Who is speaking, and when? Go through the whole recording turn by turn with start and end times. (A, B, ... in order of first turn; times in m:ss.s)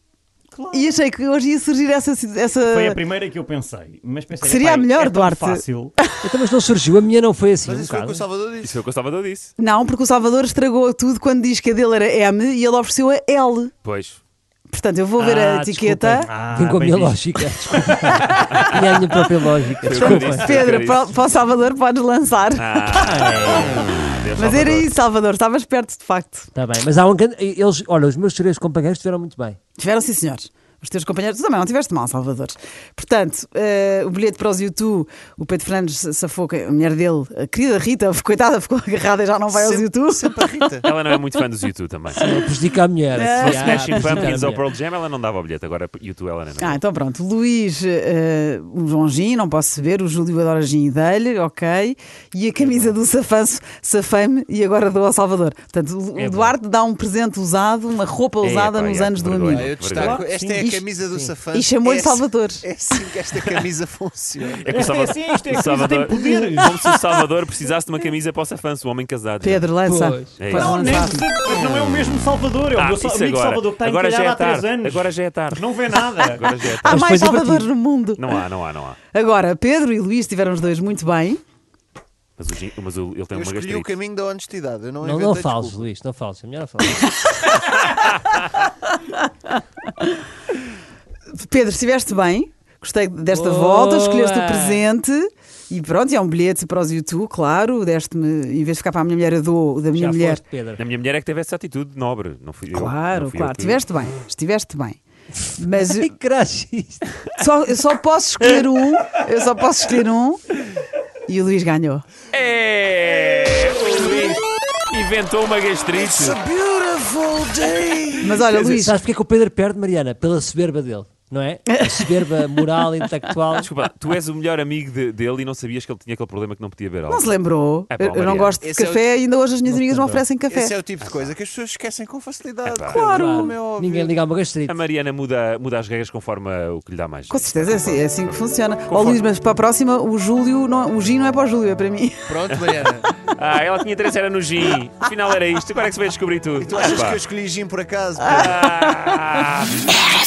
0:00.5-0:01.0 A
0:00.7-0:03.0 B
0:02.6-0:05.9 A
0:04.4-0:06.0 B
0:06.2-0:08.2 C
0:07.6-0:08.8 D
0:08.6-0:09.5 E
0:09.6-0:13.7 B
0:13.8-0:14.2 E
0:14.7-0:16.3 B
0:15.2-0:20.6 C
0:16.2-0:17.3 A
0:19.8-0:21.2 E
0:19.9-0:22.8 B
0:22.5-0:25.0 E
0:23.0-0:23.9 C
0:24.4-0:26.5 B
0:26.5-0:29.6 C
0:29.8-0:40.7 B
0:39.5-0:40.9 D
0:40.8-0:42.2 E
0:42.2-0:42.4 B
0:42.2-0:44.6 C
0:43.1-0:44.3 B
0:43.4-0:46.8 E
0:46.6-0:59.8 B
0:56.2-0:56.6 C
0:58.4-1:00.2 E
0:59.4-1:04.7 D
1:00.0-1:01.3 C
1:01.5-1:02.7 B
1:04.6-1:09.6 E
1:04.7-1:06.8 A
1:06.1-1:06.5 D
1:09.4-1:11.2 B
1:09.8-1:10.6 C
1:10.4-1:10.8 E
1:10.6-1:16.6 A
1:11.5-1:12.1 E
1:12.7-1:15.7 E
1:16.2-1:17.0 E
1:16.8-1:17.7 C
1:16.8-1:18.3 B
1:18.2-1:19.0 E
1:19.1-1:21.4 B
1:22.4-1:23.9 E
1:23.3-1:25.8 D
1:25.0-1:27.0 C
1:27.3-1:29.5 B
1:31.3-1:40.4 B
1:33.3-1:34.8 C
1:39.9-1:40.8 C
1:40.8-1:43.9 E
1:42.7-1:45.0 B
1:45.6-1:46.1 B
1:45.8-1:47.0 C
1:47.4-1:50.4 B
1:51.3-1:52.0 B
1:52.3-1:56.4 E
1:55.9-1:58.8 D
1:58.2-1:59.0 B
1:58.6-2:03.7 C
2:01.7-2:02.1 B
2:03.6-2:07.3 E
2:07.1-2:10.8 B
2:07.9-2:08.6 E
2:08.6-2:09.1 D
2:09.6-2:10.2 C
2:10.5-2:14.1 D
2:11.0-2:11.3 E
2:12.6-2:13.0 E
2:12.9-2:13.6 B
2:13.0-2:14.8 C
2:14.6-2:19.3 E
2:17.3-2:22.3 B
2:22.3-2:23.1 D
2:22.5-2:27.2 E
2:26.6-2:28.5 D
2:28.2-2:30.1 E
2:28.3-2:29.2 B